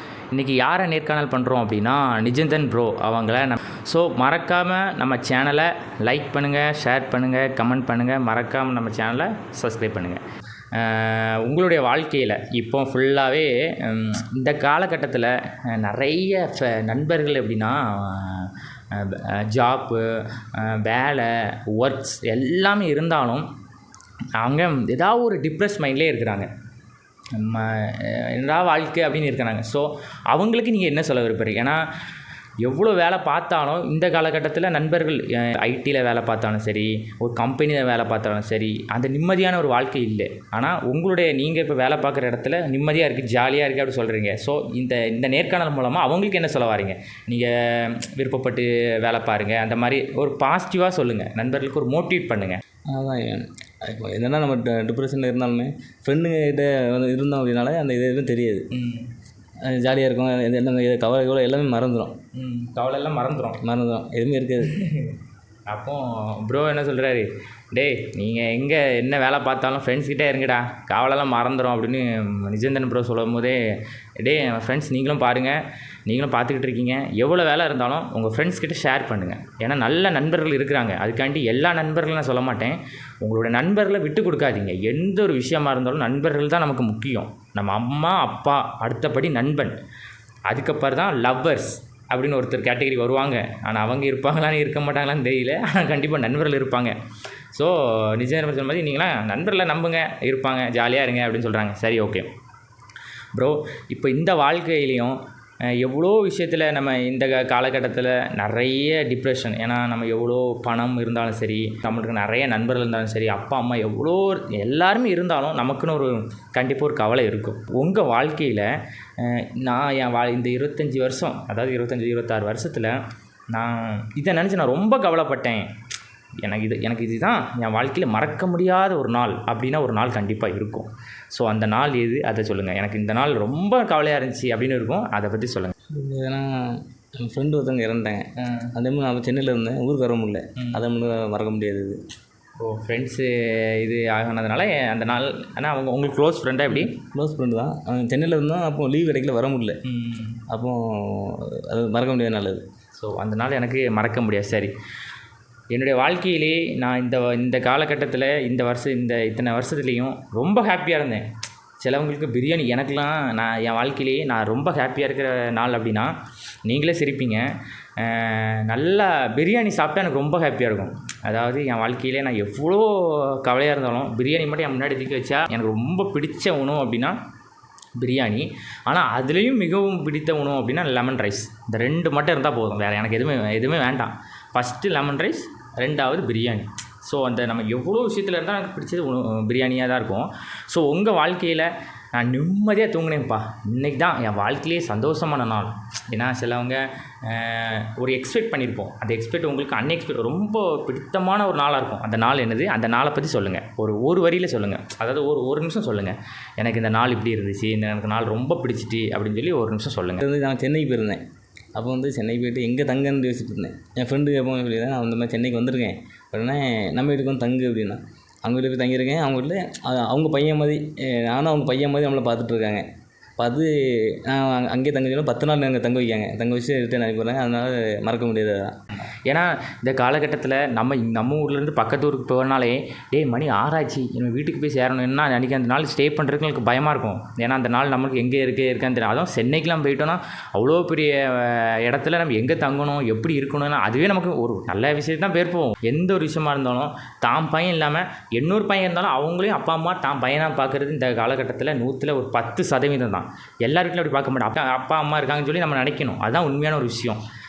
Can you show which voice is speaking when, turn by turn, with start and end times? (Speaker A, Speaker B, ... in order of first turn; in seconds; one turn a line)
Speaker A: 0.3-10.2
Speaker A: 10.7-23.5
Speaker A: 24.4-26.5
Speaker A: 27.3-31.8
Speaker A: 32.6-52.6
Speaker B: 52.9-58.7
Speaker A: 58.7-59.1
Speaker B: 59.6-62.1
Speaker A: 62.3-63.6
Speaker B: 63.6-64.7
Speaker A: 64.6-65.2
Speaker A: 65.7-73.6
Speaker A: 74.2-89.8
Speaker A: 90.5-97.0
Speaker A: 97.5-102.3
Speaker A: 103.3-105.2
Speaker A: 105.7-123.0
Speaker A: 123.5-125.7
Speaker A: 126.4-135.7
Speaker B: 135.9-142.0
Speaker A: 138.4-138.7
Speaker A: 140.6-140.8
Speaker A: 142.6-146.9
Speaker B: 146.8-149.8
Speaker A: 149.8-150.4
Speaker B: 150.5-152.6
Speaker A: 153.0-154.7
Speaker A: 155.7-161.3
Speaker A: 161.8-166.1
Speaker A: 166.7-177.2
Speaker A: 177.9-210.2
Speaker B: 210.2-211.2
Speaker B: 211.7-222.9
Speaker B: 223.4-228.7
Speaker A: 229.2-257.2